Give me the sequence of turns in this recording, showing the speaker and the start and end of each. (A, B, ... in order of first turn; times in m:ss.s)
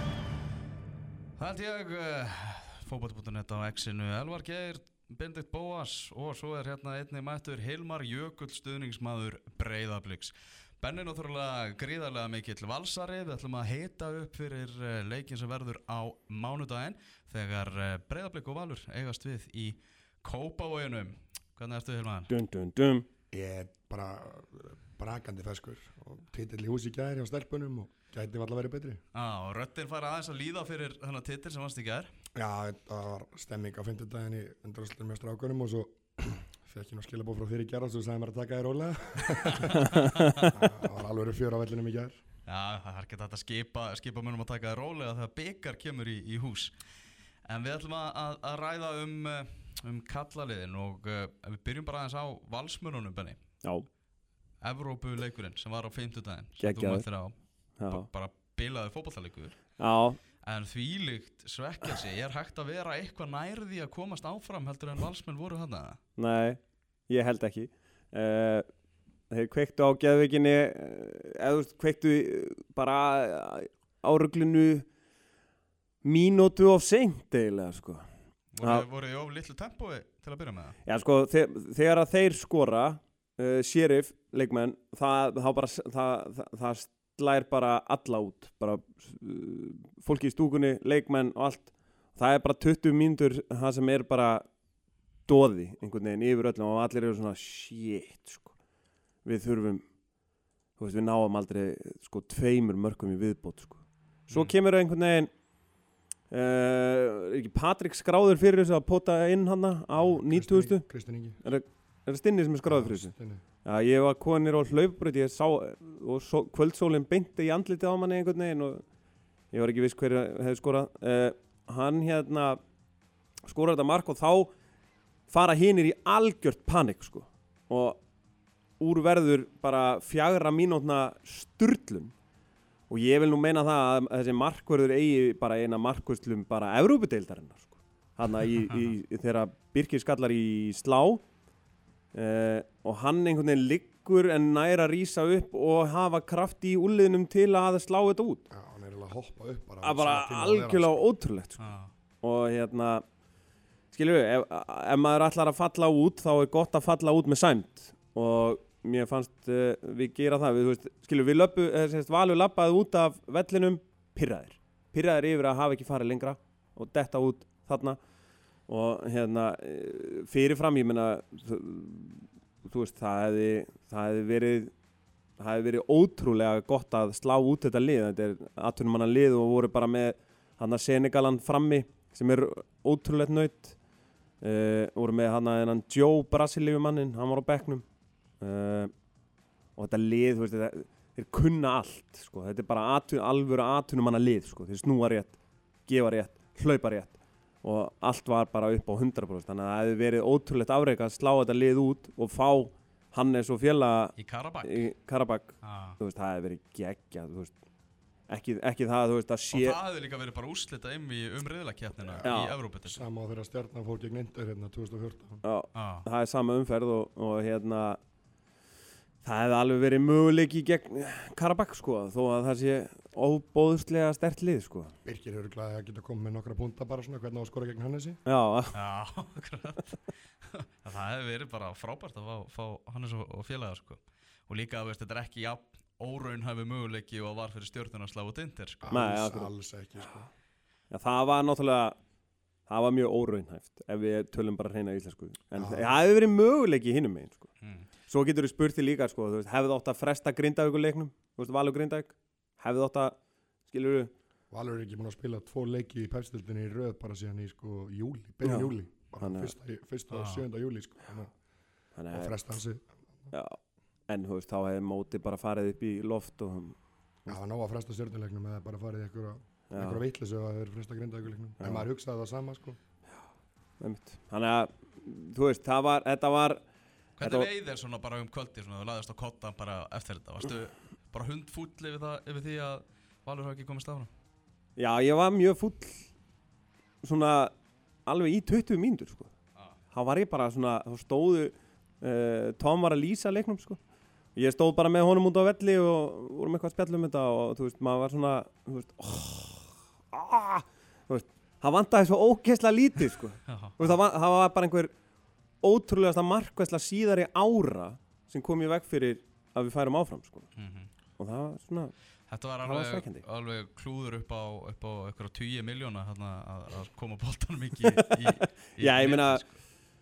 0:01.4-0:22.3 A
0:22.3-0:23.1 B
0:23.3-0:29.0 C
0:29.1-0:32.1 A
0:32.4-0:40.0 C
0:39.7-0:40.5 A
0:39.8-0:40.2 B
0:40.5-0:42.2 C
0:42.5-0:46.7 A
0:47.5-0:53.4 A
0:54.6-0:57.4 A
0:56.6-0:57.0 B
0:57.8-0:58.1 B
0:57.9-0:59.6 A
0:59.8-1:00.2 B
1:00.4-1:06.0 A
1:06.2-1:08.7 B
1:09.3-1:14.9 B
1:16.0-1:18.1 B
1:18.6-1:20.8 A
1:18.6-1:18.8 B
1:20.8-1:34.5 B
1:35.3-1:38.6 B
1:39.2-1:39.9 B
1:40.8-1:45.3 B
1:46.3-1:50.8 B
1:50.1-1:51.4 C
1:51.4-1:53.1 B
1:52.7-1:53.4 C
1:53.6-1:58.8 B
1:59.5-2:02.6 B
2:03.4-2:04.5 B
2:05.3-2:08.0 B
2:08.8-2:12.1 B
2:12.9-2:21.2 B
2:22.1-2:28.5 B
2:28.5-2:31.1 C
2:29.8-2:31.6 B
2:31.6-2:31.9 A
2:32.2-2:33.0 B
2:33.9-2:48.0 B
2:48.7-2:54.7 B
2:55.4-3:03.8 B
3:04.4-3:07.8 B
3:08.4-3:08.9 B
3:09.8-3:27.5 B
3:24.2-3:24.9 A
3:25.6-3:26.0 A
3:28.3-3:29.8 B
3:29.5-3:33.0 A
3:32.0-3:35.4 C
3:32.2-3:32.5 B
3:35.4-3:38.0 B
3:35.7-3:36.1 A
3:39.2-3:44.9 B
3:45.0-3:48.2 C
3:48.2-3:48.8 B
3:48.7-3:58.9 A
3:58.8-4:00.3 C
3:58.9-3:59.5 B
4:00.9-4:02.0 B
4:02.7-4:07.5 B
4:05.6-4:05.9 C
4:07.6-4:07.9 A
4:08.1-4:14.1 B
4:14.5-4:21.3 C
4:18.4-4:19.5 B
4:20.1-4:20.4 A
4:21.9-4:22.4 B
4:22.1-4:23.3 C
4:23.3-4:26.8 B
4:27.2-4:32.8 C
4:29.7-4:30.0 B
4:31.6-4:31.9 B
4:33.8-4:36.6 B
4:37.2-4:44.1 A
4:37.2-4:37.5 B
4:44.8-4:46.1 B
4:47.0-4:47.5 B
4:48.1-4:49.3 B
4:49.9-4:53.8 B
4:54.3-5:04.9 B
5:03.5-5:03.9 A
5:05.6-5:10.5 B
5:10.6-5:10.9 A
5:11.2-5:11.9 B
5:12.3-5:19.5 A
5:12.6-5:13.2 B
5:17.8-5:19.4 B